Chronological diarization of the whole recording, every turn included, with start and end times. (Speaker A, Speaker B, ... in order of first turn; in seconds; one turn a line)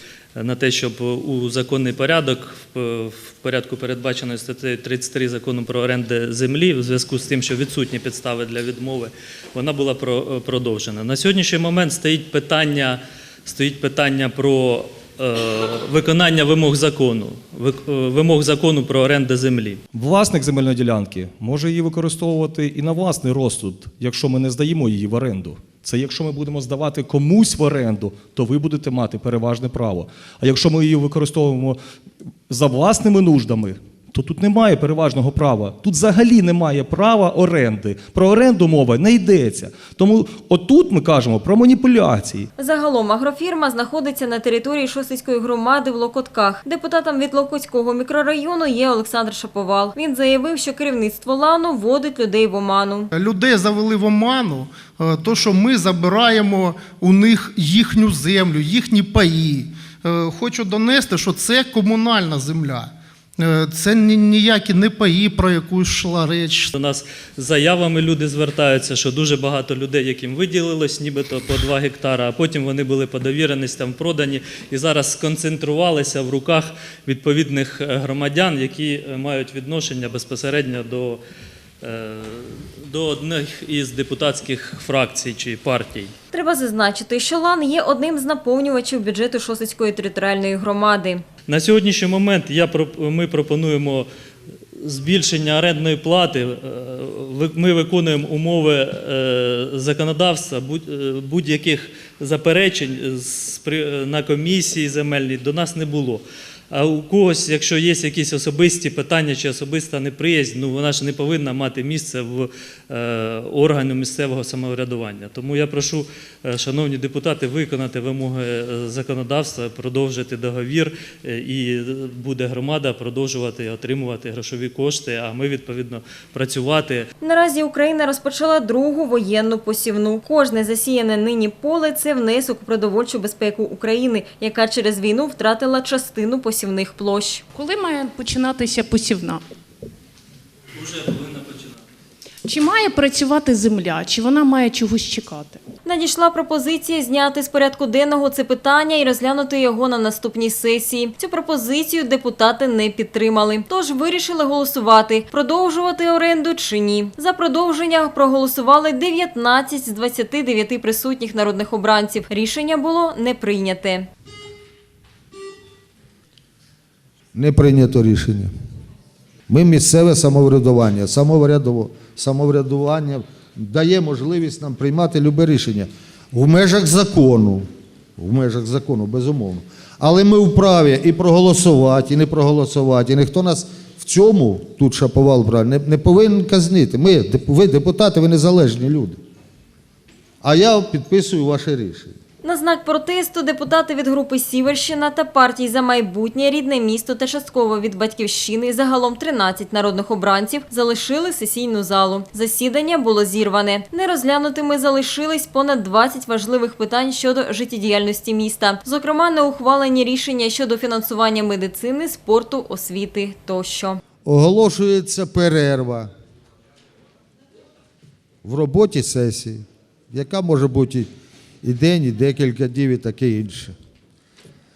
Speaker A: 0.3-19.8
Speaker B: 19.9-31.8
Speaker B: 32.5-42.5
Speaker C: 42.6-53.1
Speaker D: 53.1-66.7
Speaker A: 66.7-81.2
Speaker A: 81.8-86.1
Speaker C: 86.3-91.2
Speaker A: 91.5-94.1
Speaker A: 94.8-127.1
Speaker C: 127.2-137.4
Speaker E: 137.5-139.4
Speaker A: 140.7-141.8
Speaker E: 142.4-145.6
Speaker C: 145.8-164.1
Speaker F: 167.3-168.5
Speaker F: 169.5-189.2
Speaker F: 190.4-192.1
Speaker C: 192.4-214.0
Speaker F: 214.2-216.1
Speaker F: 218.4-221.1
Speaker F: 221.6-223.7